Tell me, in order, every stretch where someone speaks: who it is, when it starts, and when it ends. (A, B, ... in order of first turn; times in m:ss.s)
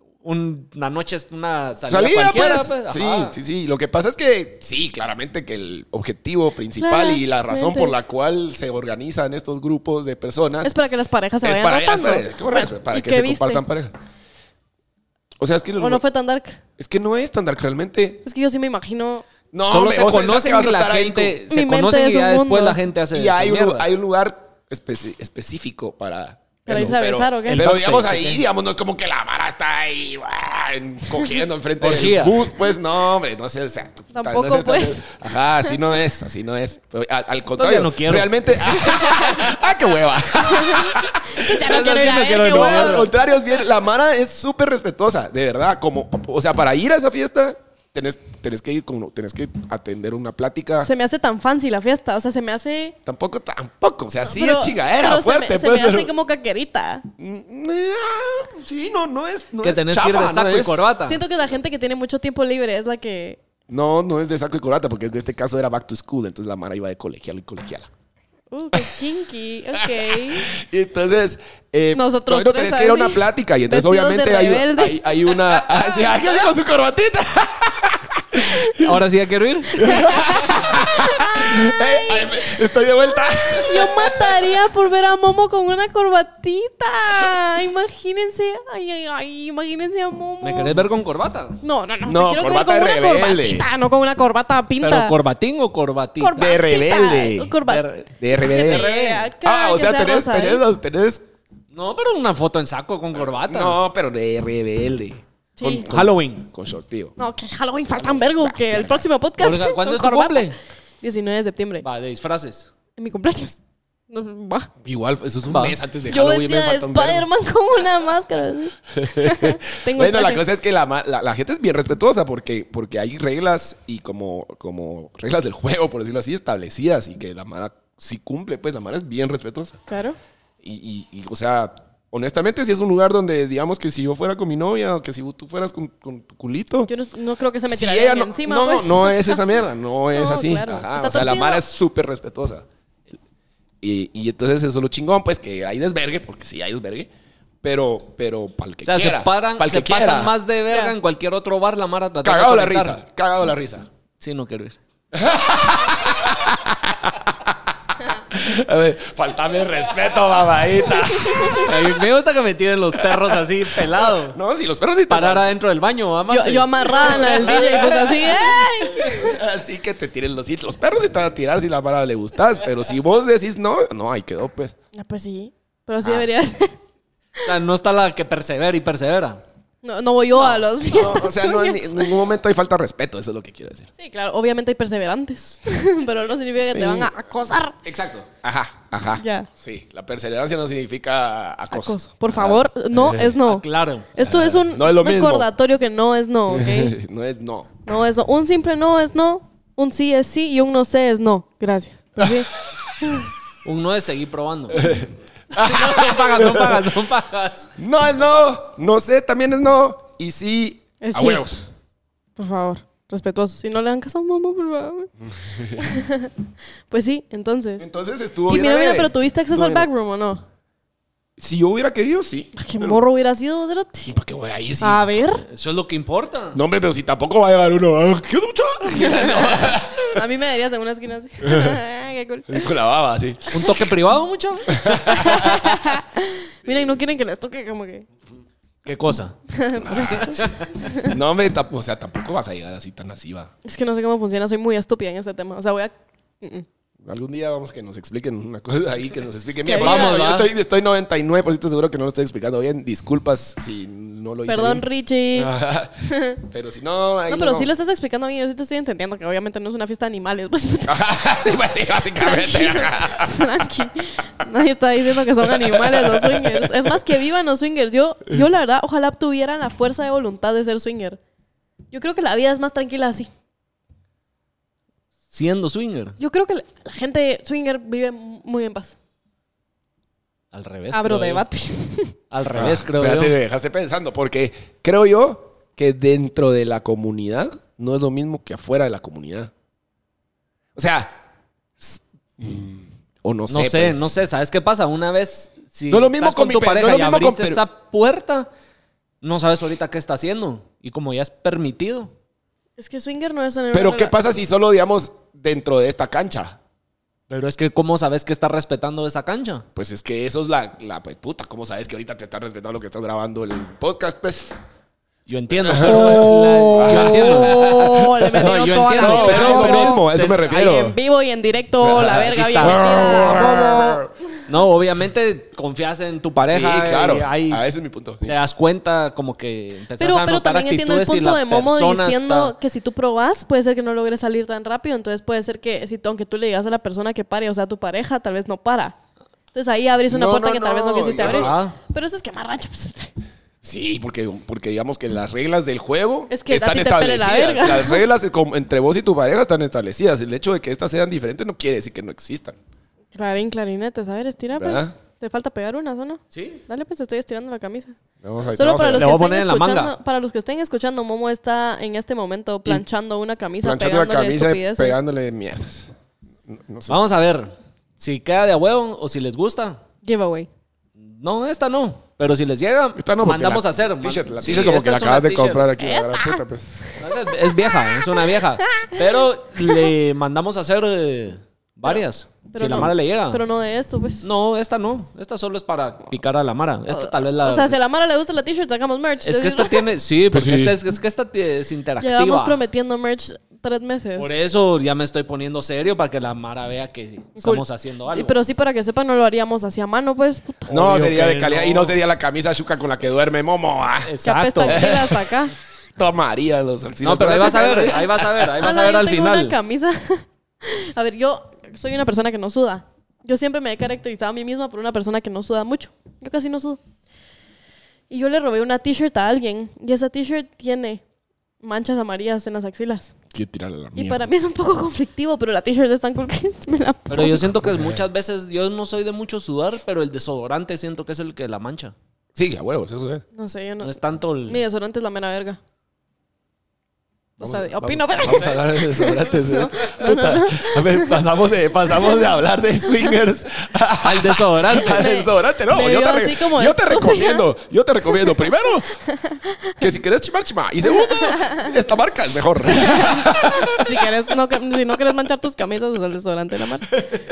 0:00.2-0:03.4 A
0:01.9-0:10.7 B
0:06.8-0:08.0 C
0:10.6-0:13.6 C
0:11.4-0:14.0 B
0:15.4-0:16.0 B
0:15.8-0:16.6 C
0:16.8-0:18.2 B
0:18.2-0:19.3 C
0:19.5-0:21.3 B
0:19.6-0:24.0 A
0:21.5-0:22.8 C
0:23.1-0:41.8 B
0:26.6-0:27.6 C
0:26.7-0:26.9 A
0:27.5-0:28.4 A
0:31.8-0:32.4 A
0:34.1-0:35.0 C
0:37.6-0:38.3 A
0:38.8-0:39.4 C
0:40.4-0:43.1 C
0:41.6-0:43.1 A
0:42.5-0:50.9 B
0:50.8-0:53.0 C
0:53.1-0:56.1 B
0:54.3-0:57.1 C
0:57.2-1:00.8 B
0:59.6-1:01.2 A
1:01.0-1:03.4 C
1:03.7-1:07.9 B
1:08.5-1:10.5 C
1:09.8-1:19.0 B
1:11.9-1:16.1 C
1:18.8-1:19.9 A
1:19.8-1:24.6 B
1:19.8-1:22.5 C
1:23.6-1:30.8 C
1:30.4-1:31.6 A
1:31.6-1:35.1 C
1:32.0-1:33.7 B
1:34.8-1:36.4 A
1:36.2-1:40.6 C
1:36.4-1:37.6 B
1:37.7-1:39.3 A
1:38.2-1:38.9 B
1:39.4-1:41.2 B
1:41.7-1:43.8 A
1:43.4-1:47.2 B
1:45.6-1:45.9 C
1:45.9-1:46.5 A
1:47.2-1:51.8 C
1:48.4-1:49.0 B
1:49.4-1:50.6 A
1:51.8-1:52.7 A
1:53.0-1:54.7 C
1:54.8-1:57.3 B
1:55.5-1:55.8 A
1:56.1-2:00.4 C
1:59.0-2:09.8 B
2:09.9-2:10.2 C
2:10.6-2:16.9 B
2:16.9-2:19.4 C
2:17.7-2:23.2 B
2:20.1-2:21.6 C
2:23.8-2:27.1 B
2:27.6-2:30.3 B
2:28.8-2:33.0 A
2:30.7-2:31.0 C
2:32.2-2:33.9 B
2:34.2-2:34.8 A
2:35.1-2:37.6 B
2:38.2-2:41.9 B
2:41.2-2:41.6 C
2:41.6-2:44.4 A
2:43.0-2:45.5 B
2:45.1-2:47.6 A
2:46.3-2:49.4 C
2:46.9-2:54.7 B
2:54.9-2:56.7 C
2:57.4-2:59.4 A
2:59.8-3:02.2 C
3:00.9-3:03.9 B
3:04.0-3:07.8 C
3:06.6-3:07.1 B
3:07.8-3:13.4 B
3:09.2-3:09.5 C
3:11.7-3:17.0 C
3:13.4-3:14.4 A
3:14.2-3:15.5 B
3:16.5-3:17.7 B
3:17.9-3:22.5 C
3:23.6-3:25.0 A
3:24.7-3:26.9 B
3:25.6-3:27.7 A
3:27.8-3:31.7 B
3:28.2-3:28.6 A
3:31.0-3:31.5 C
3:32.4-3:35.1 C
3:35.2-3:35.9 B
3:35.8-3:36.3 C
3:36.9-3:37.9 C
3:37.8-3:39.9 B
3:38.5-3:40.4 C
3:41.4-3:43.0 B
3:42.6-3:44.1 C
3:44.1-3:45.1 B
3:44.8-3:45.4 C
3:45.4-3:46.6 A
3:46.5-3:50.2 B
3:48.9-3:52.7 C
3:51.4-3:51.8 B
3:52.5-3:53.8 B
3:53.5-3:55.3 A
3:54.8-3:55.6 B
3:55.1-3:58.1 C
3:58.8-3:59.4 A
3:59.5-4:01.1 C
3:59.8-4:00.5 B
4:00.2-4:00.7 A
4:01.0-4:03.5 B
4:03.6-4:06.7 C
4:07.0-4:17.7 B
4:09.6-4:10.2 C
4:09.8-4:10.5 A
4:14.5-4:15.5 C
4:16.1-4:16.4 C
4:17.3-4:21.6 C
4:20.9-4:23.7 B
4:22.2-4:31.2 C
4:25.4-4:27.0 B
4:31.9-4:33.3 C
4:35.3-4:36.2 A
4:36.2-4:39.0 C
4:40.5-4:41.4 A
4:40.9-4:42.2 C
4:42.3-4:43.4 A
4:42.4-4:49.5 B
4:50.8-4:51.2 B
4:51.8-4:54.1 B
4:53.5-4:58.5 A
4:55.9-4:57.6 B
4:59.2-5:02.1 A
5:02.8-5:04.2 C
5:03.7-5:06.6 B
5:07.3-5:09.6 A
5:09.8-5:14.6 B
5:15.3-5:20.8 A
5:15.6-5:21.0 B
5:15.8-5:24.0 C
5:21.8-5:24.1 B
5:21.9-5:23.4 A
5:24.5-5:27.7 A
5:26.4-5:28.4 B
5:28.2-5:32.6 A
5:30.0-5:39.0 C
5:39.5-5:43.1 C
5:40.1-5:41.6 B
5:41.2-5:41.8 A
5:43.6-5:52.6 B
5:46.3-5:48.0 C
5:53.2-5:58.0 C
5:54.6-5:55.0 B
5:56.3-5:56.6 A
5:58.2-5:59.1 B
5:58.6-6:05.0 C
5:59.0-5:59.9 A
6:03.6-6:05.9 B
6:06.5-6:07.0 B
6:06.9-6:09.8 A
6:10.0-6:10.5 C
6:11.0-6:15.7 A
6:13.0-6:16.8 B
6:15.8-6:16.4 C
6:17.0-6:23.4 A
6:17.7-6:18.2 C
6:18.7-6:19.0 C
6:22.5-6:24.3 C
6:24.2-6:27.8 A
6:26.9-6:29.9 C
6:29.2-6:32.6 A
6:30.3-6:30.8 B
6:32.0-6:34.4 C
6:34.2-6:38.4 A
6:37.4-6:40.9 C
6:40.7-6:45.3 B
6:40.7-6:42.0 A
6:44.0-6:44.9 A
6:44.2-6:45.5 C
6:46.0-6:48.5 B
6:47.0-6:49.6 A
6:48.6-6:56.8 C
6:58.1-7:01.0 C
7:01.6-7:03.1 C
7:03.3-7:04.2 B
7:04.0-7:07.5 C
7:07.1-7:11.9 A
7:07.7-7:08.0 B
7:12.4-7:13.2 B
7:13.4-7:15.6 C
7:13.8-7:14.6 A
7:17.4-7:29.0 B
7:17.4-7:21.2 C
7:18.3-7:18.6 A
7:24.0-7:25.1 A
7:24.8-7:27.5 C
7:28.1-7:29.9 C
7:29.8-7:34.1 B
7:30.8-7:31.7 C
7:32.7-7:37.1 C